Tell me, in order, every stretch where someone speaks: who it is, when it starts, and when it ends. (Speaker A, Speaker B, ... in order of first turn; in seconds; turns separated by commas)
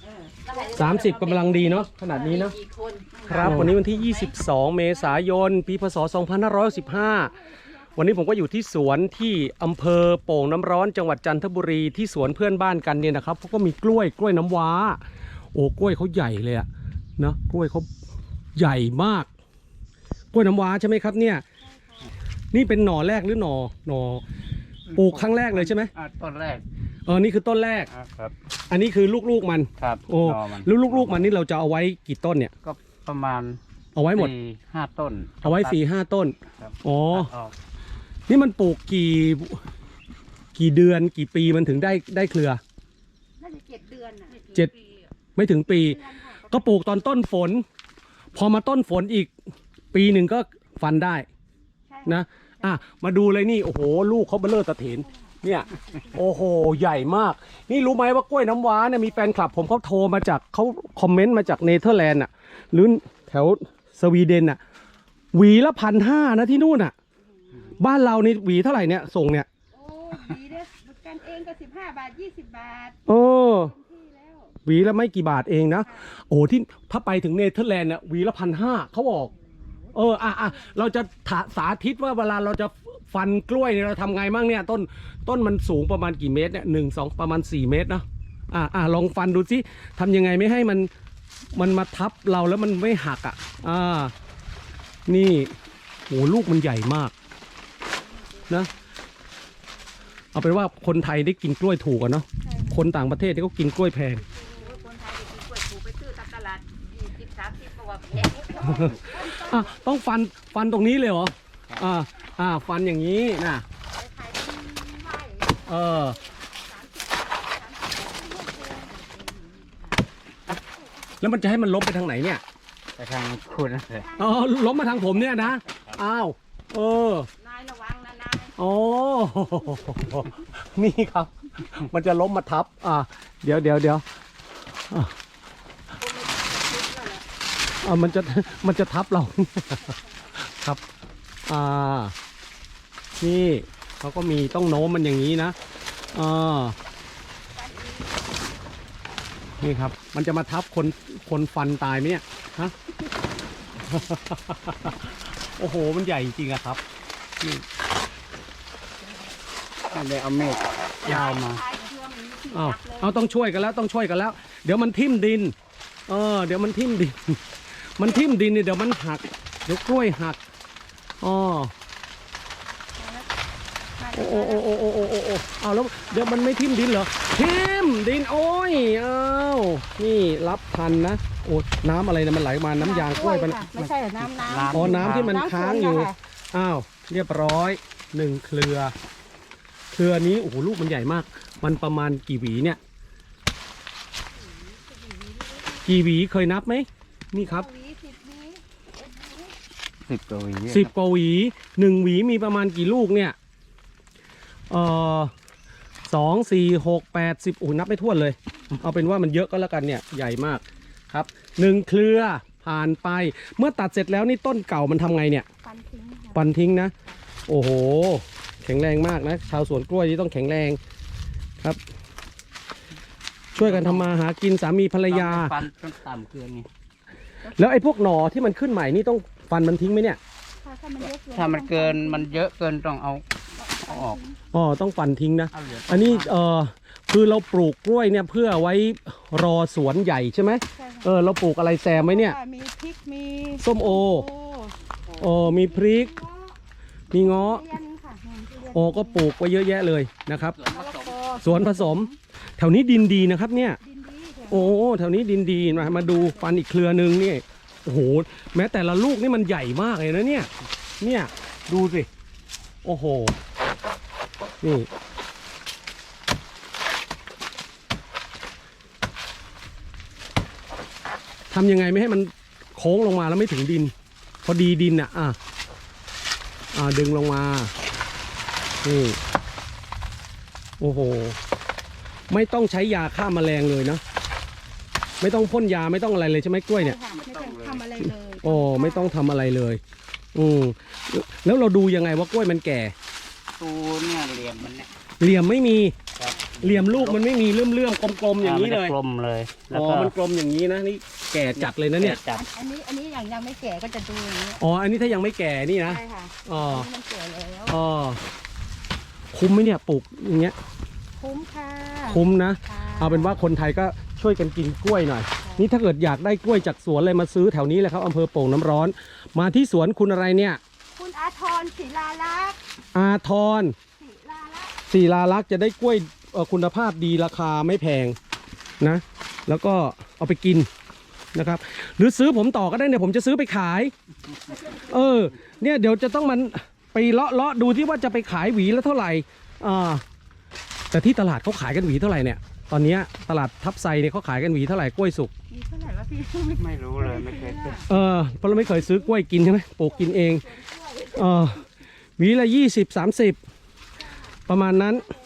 Speaker A: 0.4-4.3, Speaker B: 0.7-2.5, Speaker C: 3.2-3.6, Speaker B: 3.2-7.3, Speaker C: 6.9-7.4, Speaker B: 7.9-15.0, Speaker B: 15.5-17.9, Speaker B: 18.6-19.3, Speaker B: 20.3-21.4, Speaker C: 21.7-22.0, Speaker B: 22.5-24.2, Speaker D: 24.9-26.6, Speaker B: 24.9-25.9, Speaker B: 27.1-27.9, Speaker D: 27.9-28.3, Speaker B: 28.7-32.5, Speaker D: 29.8-31.3, Speaker D: 32.6-33.6, Speaker B: 33.9-34.3, Speaker D: 34.1-35.8, Speaker B: 35.4-37.3, Speaker D: 36.6-37.5, Speaker B: 38.3-39.6, Speaker B: 40.5-42.6, Speaker C: 43.4-44.7, Speaker B: 45.4-47.6, Speaker C: 45.8-46.8, Speaker B: 48.3-49.3, Speaker B: 49.9-51.2, Speaker C: 51.9-52.2, Speaker B: 52.0-64.6, Speaker B: 65.3-66.9, Speaker B: 67.8-69.5, Speaker C: 69.7-73.0, Speaker B: 73.1-73.7, Speaker C: 73.5-74.5, Speaker B: 74.6-79.3, Speaker B: 79.9-90.9, Speaker C: 80.0-80.8, Speaker B: 91.5-94.1, Speaker B: 95.1-95.5, Speaker B: 96.1-97.1, Speaker C: 98.3-98.6, Speaker B: 100.3-104.2, Speaker C: 102.5-102.8, Speaker C: 104.4-109.7, Speaker A: 104.5-106.6, Speaker A: 107.2-108.7, Speaker B: 108.6-113.6, Speaker C: 113.9-119.8, Speaker B: 115.6-116.2, Speaker B: 121.2-122.4, Speaker D: 123.0-124.1, Speaker C: 124.0-125.3, Speaker B: 124.2-127.3, Speaker D: 125.3-126.0, Speaker C: 127.4-128.5, Speaker B: 128.6-134.0, Speaker B: 134.9-135.1, Speaker C: 136.0-137.2, Speaker B: 137.8-140.8, Speaker B: 141.4-142.1, Speaker B: 143.2-145.6, Speaker B: 146.1-146.8, Speaker C: 147.6-148.3, Speaker B: 149.6-152.7, Speaker B: 153.8-156.8, Speaker D: 159.9-161.6, Speaker C: 161.0-163.2, Speaker B: 162.5-165.5, Speaker B: 166.1-170.4, Speaker B: 171.2-171.7, Speaker C: 173.0-173.3, Speaker C: 174.0-174.6, Speaker B: 174.1-183.7, Speaker C: 182.8-186.1, Speaker D: 183.7-185.4, Speaker B: 184.7-188.9, Speaker B: 189.9-192.8, Speaker C: 194.6-195.8, Speaker B: 195.8-197.7, Speaker C: 197.4-199.5, Speaker D: 200.0-200.9, Speaker B: 200.7-203.3, Speaker B: 204.7-205.3, Speaker B: 206.1-215.5, Speaker C: 215.6-216.5, Speaker B: 216.3-216.9, Speaker B: 217.5-220.8, Speaker B: 223.5-225.6, Speaker D: 223.6-224.1, Speaker D: 225.1-226.7, Speaker B: 227.5-230.2, Speaker C: 230.6-232.5, Speaker D: 231.0-234.2, Speaker C: 233.6-234.4, Speaker B: 234.5-242.4, Speaker D: 235.5-236.3, Speaker C: 240.7-241.1, Speaker C: 241.9-246.5, Speaker B: 243.6-244.3, Speaker B: 245.2-246.1, Speaker B: 247.1-247.6, Speaker C: 247.1-249.2, Speaker B: 248.7-250.6, Speaker D: 250.6-251.1, Speaker C: 250.7-252.1, Speaker B: 251.4-253.8, Speaker C: 253.8-254.7, Speaker B: 254.5-260.5, Speaker C: 255.9-256.3, Speaker B: 261.0-262.1, Speaker B: 262.8-263.4, Speaker B: 264.6-264.9, Speaker B: 271.5-273.9, Speaker B: 274.4-275.4, Speaker B: 276.7-277.7, Speaker B: 278.8-279.2, Speaker B: 280.8-281.4, Speaker B: 282.3-284.0, Speaker B: 285.2-287.0, Speaker C: 286.8-289.2, Speaker D: 287.1-287.9, Speaker B: 288.0-289.8, Speaker B: 290.3-292.9, Speaker D: 293.6-294.9, Speaker B: 295.2-295.9, Speaker D: 296.2-297.3, Speaker B: 296.6-298.9, Speaker D: 298.4-300.1, Speaker B: 299.7-302.2, Speaker D: 301.5-302.4, Speaker C: 302.3-304.6, Speaker B: 304.6-306.9, Speaker C: 305.8-307.8, Speaker B: 307.7-308.2, Speaker B: 309.3-310.6, Speaker C: 311.2-313.3, Speaker B: 312.1-320.6, Speaker C: 320.9-322.6, Speaker B: 322.9-323.7, Speaker C: 324.0-324.8, Speaker B: 324.9-328.2, Speaker B: 328.8-330.7, Speaker B: 331.3-333.9, Speaker B: 334.6-340.0, Speaker B: 340.9-345.3, Speaker C: 345.5-347.9, Speaker D: 346.6-347.8, Speaker B: 347.9-350.5, Speaker C: 348.7-349.0, Speaker C: 349.8-351.4, Speaker B: 351.1-353.4, Speaker C: 354.2-355.0, Speaker B: 354.5-355.1